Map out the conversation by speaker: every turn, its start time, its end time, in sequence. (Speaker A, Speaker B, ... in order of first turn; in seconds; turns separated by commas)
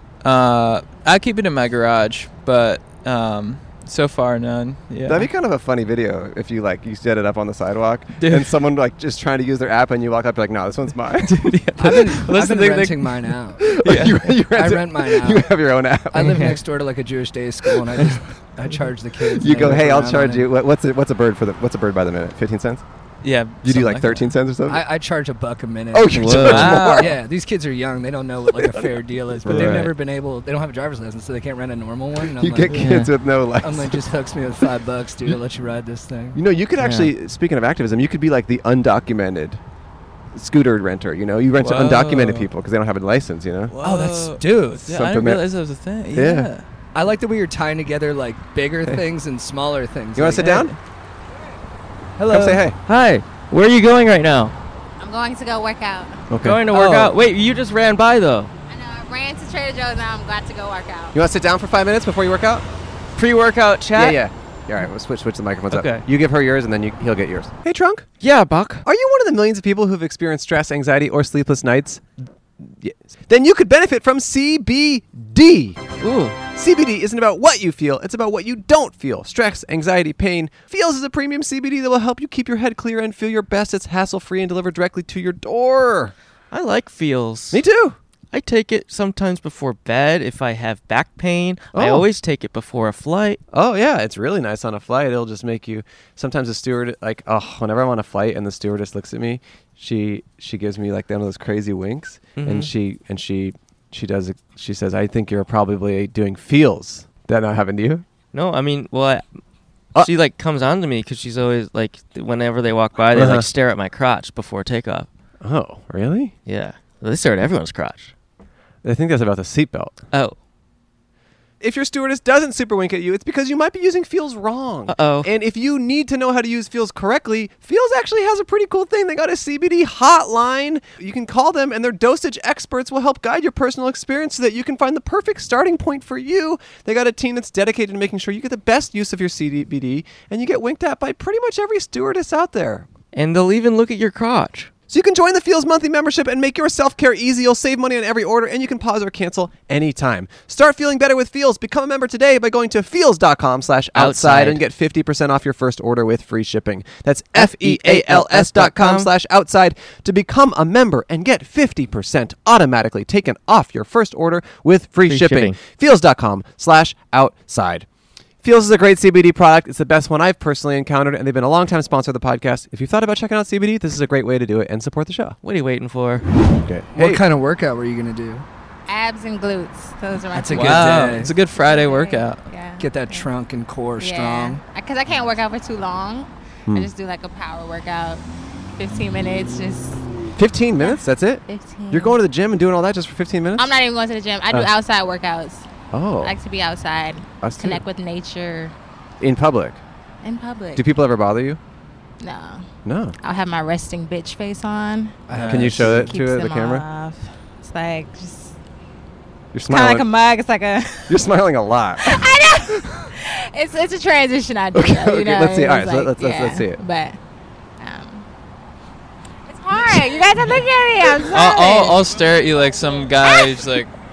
Speaker A: 0.2-5.3, Speaker B: 5.1-12.0, Speaker A: 8.2-8.5, Speaker A: 11.2-14.3, Speaker C: 11.8-13.8, Speaker B: 13.6-16.5, Speaker C: 14.5-15.5, Speaker C: 16.1-20.4, Speaker B: 19.3-22.8, Speaker A: 23.2-24.4, Speaker B: 23.6-24.8, Speaker C: 24.6-32.9, Speaker B: 25.9-27.1, Speaker A: 26.2-27.1, Speaker B: 28.6-28.9, Speaker B: 29.4-29.9, Speaker A: 29.5-29.9, Speaker B: 32.2-34.1, Speaker D: 32.7-33.1, Speaker C: 33.6-36.4, Speaker B: 36.4-39.6, Speaker D: 36.8-37.1, Speaker B: 40.3-43.8, Speaker A: 41.6-42.5, Speaker A: 43.7-46.6, Speaker C: 43.8-44.9, Speaker B: 44.9-45.5, Speaker B: 46.1-46.5, Speaker C: 46.9-50.6, Speaker B: 50.1-50.7, Speaker A: 50.4-50.8, Speaker C: 52.2-52.7, Speaker B: 52.3-52.8, Speaker D: 52.9-54.5, Speaker E: 55.0-56.2, Speaker B: 56.3-56.7, Speaker D: 56.4-58.5, Speaker E: 58.7-61.1, Speaker B: 61.1-62.6, Speaker D: 63.1-64.2, Speaker B: 64.0-68.1, Speaker D: 65.7-66.0, Speaker D: 68.2-68.8, Speaker B: 68.8-72.0, Speaker B: 72.7-75.8, Speaker D: 76.0-76.4, Speaker B: 76.5-86.1, Speaker D: 86.5-87.6, Speaker B: 87.5-88.0, Speaker D: 88.3-93.4, Speaker B: 91.7-92.1, Speaker B: 93.5-108.0, Speaker D: 102.4-102.7, Speaker D: 108.3-109.3, Speaker D: 110.0-115.1, Speaker B: 113.1-113.5, Speaker B: 115.4-116.3, Speaker D: 116.5-118.1, Speaker B: 118.8-120.0, Speaker D: 120.1-120.4, Speaker B: 121.6-142.9, Speaker D: 124.9-125.3, Speaker D: 143.1-144.7, Speaker B: 144.9-167.9, Speaker D: 153.9-154.6, Speaker D: 157.3-159.1, Speaker D: 165.1-165.6, Speaker B: 168.4-175.4, Speaker D: 175.4-176.2, Speaker B: 176.6-177.2, Speaker C: 176.9-178.4, Speaker E: 178.9-183.3, Speaker C: 180.3-181.3, Speaker A: 180.5-182.4, Speaker C: 182.8-184.6, Speaker E: 184.0-188.2, Speaker E: 188.8-190.1, Speaker B: 190.4-193.7, Speaker E: 190.8-192.2, Speaker E: 193.6-195.7, Speaker B: 195.9-196.3, Speaker E: 196.2-198.8, Speaker B: 197.4-197.8, Speaker B: 199.2-199.8, Speaker E: 200.2-200.8, Speaker B: 200.8-201.6, Speaker E: 202.2-202.7, Speaker B: 202.8-203.2, Speaker E: 203.2-208.6, Speaker C: 205.3-206.1, Speaker B: 205.5-206.8, Speaker B: 209.5-210.1, Speaker E: 209.7-211.2, Speaker B: 211.1-212.2, Speaker E: 212.0-217.2, Speaker B: 212.8-213.1, Speaker B: 214.7-216.8, Speaker E: 217.8-218.2, Speaker E: 219.5-222.0, Speaker A: 221.3-223.9, Speaker E: 223.2-223.5